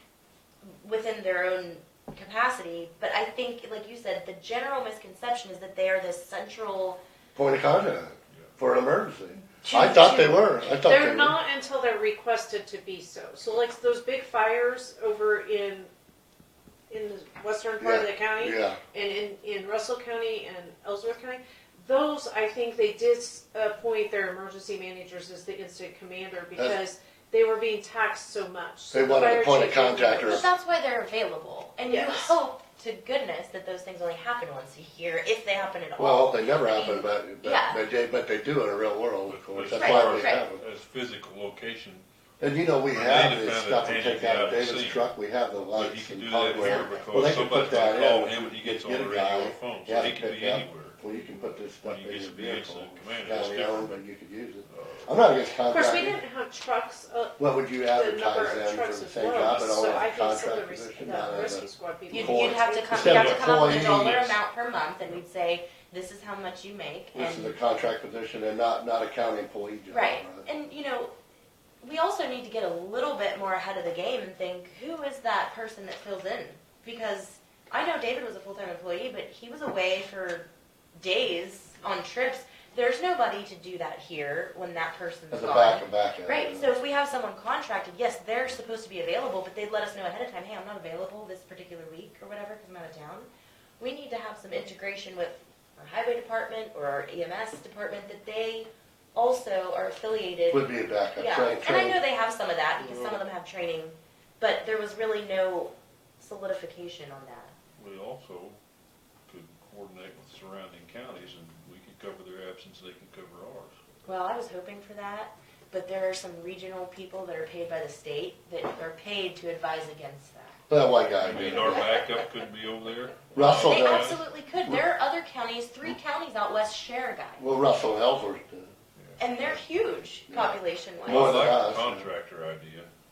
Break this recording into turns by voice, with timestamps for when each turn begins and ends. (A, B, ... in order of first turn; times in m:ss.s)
0:00.7-0:07.0 A
0:07.3-0:11.4 B
0:09.6-0:10.4 A
0:10.8-0:15.9 C
0:16.9-0:30.5 C
0:17.8-0:18.8 B
0:28.9-0:30.5 B
0:30.2-0:37.8 A
0:31.9-0:32.4 C
0:36.0-0:40.6 B
0:39.3-0:42.0 D
0:39.7-0:40.4 A
0:42.4-0:56.2 B
0:42.9-0:45.1 D
0:45.7-0:54.0 D
0:46.6-0:47.2 A
0:54.7-0:55.1 D
0:55.7-0:57.4 C
0:57.4-1:04.3 B
0:57.9-1:03.6 C
0:59.5-0:59.8 D
1:02.1-1:07.6 A
1:03.0-1:04.4 D
1:07.1-1:10.4 B
1:09.9-1:11.1 A
1:11.8-1:33.3 A
1:25.3-1:26.7 B
1:33.8-1:40.6 A
1:40.5-1:42.0 B
1:41.2-1:47.5 A
1:42.8-1:43.2 B
1:47.8-1:48.6 D
1:49.2-1:53.8 D
1:54.1-2:00.7 A
2:00.7-2:01.8 B
2:01.2-2:04.2 D
2:01.3-2:02.0 A
2:03.3-2:04.8 B
2:03.6-2:07.4 A
2:07.4-2:08.7 B
2:09.0-2:09.2 D
2:09.2-2:11.3 A
2:10.3-2:12.1 B
2:11.0-2:12.9 D